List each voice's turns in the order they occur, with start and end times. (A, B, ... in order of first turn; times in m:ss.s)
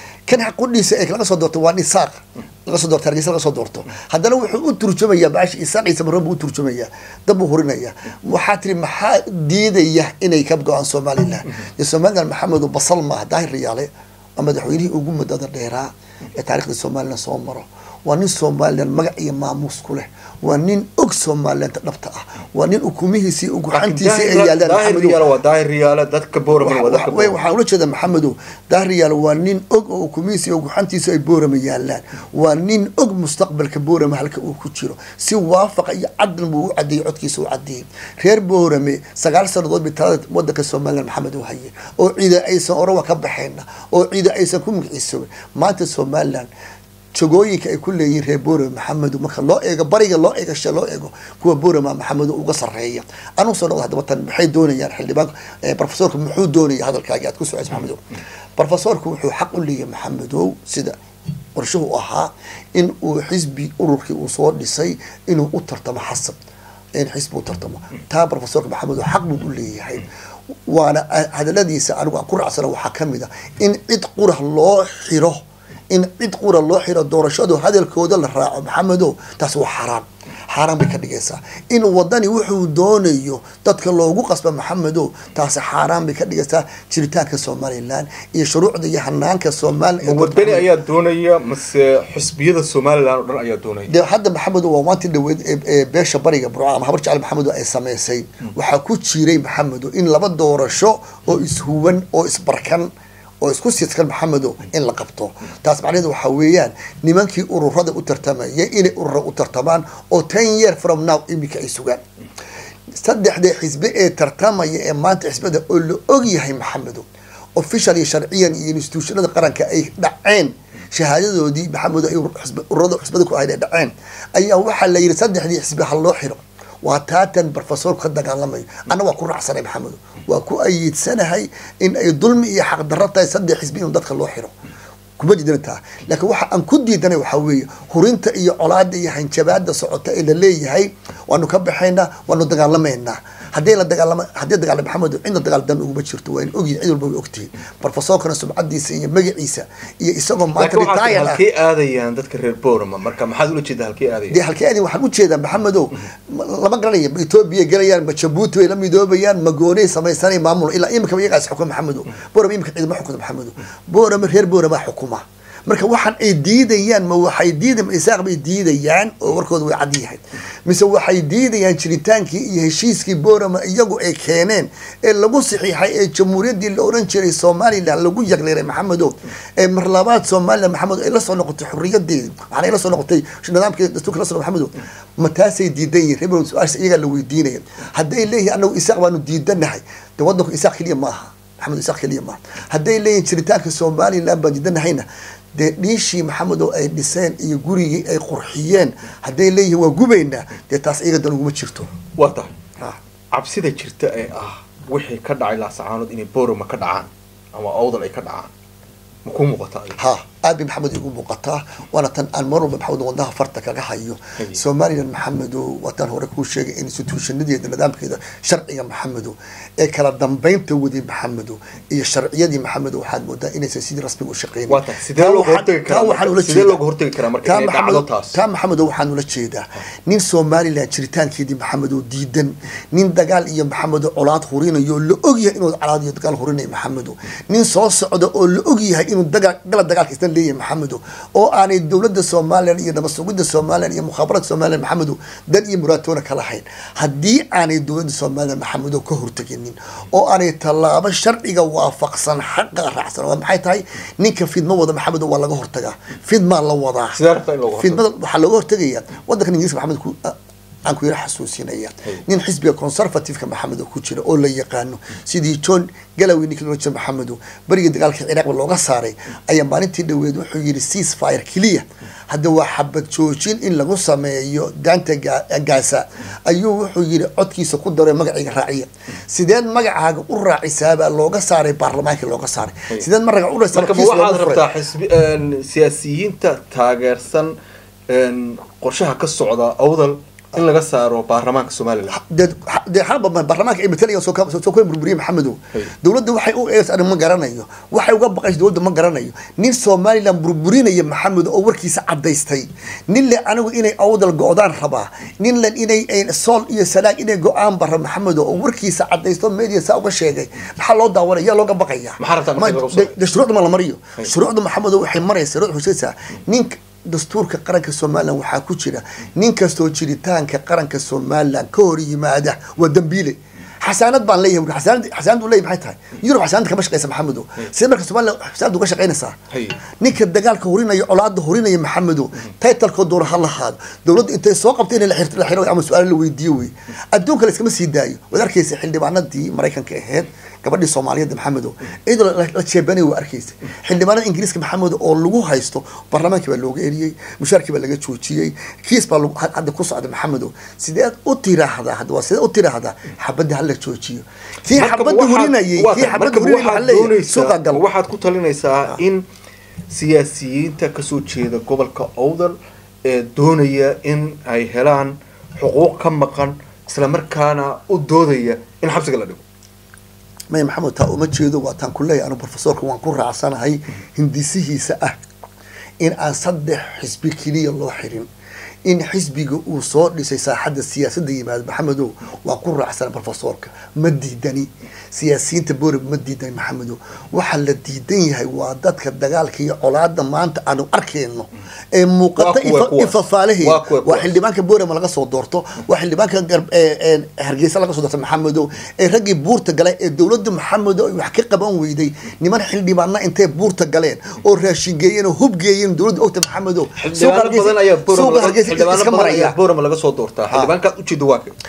0:00.3-0:25.2 A
0:23.7-0:27.4 B
0:26.6-0:46.5 A
0:47.2-1:01.0 A
1:01.6-1:06.4 A
1:07.0-1:10.1 A
1:10.7-1:30.7 A
1:30.0-1:33.9 B
1:33.9-1:42.9 A
1:43.4-1:52.0 A
1:52.9-2:14.5 A
2:15.2-2:31.4 A
2:30.6-2:34.4 B
2:34.3-3:21.9 A
3:22.2-3:22.6 B
3:23.3-3:28.5 B
3:29.2-3:30.0 B
3:30.0-3:46.8 A
3:44.7-3:48.4 B
3:47.4-4:17.2 A
4:17.2-4:18.0 B
4:17.8-4:44.7 A
4:43.7-4:47.6 B
4:48.1-4:52.2 B
4:52.1-5:29.4 A
5:12.2-5:13.2 B
5:29.5-5:29.8 B
5:29.9-5:57.8 A
5:54.7-5:59.2 B
5:59.9-6:09.4 B
6:10.5-6:15.2 A
6:16.0-6:18.3 A
6:18.8-6:49.6 A
6:32.4-6:34.4 B
6:47.0-6:51.6 B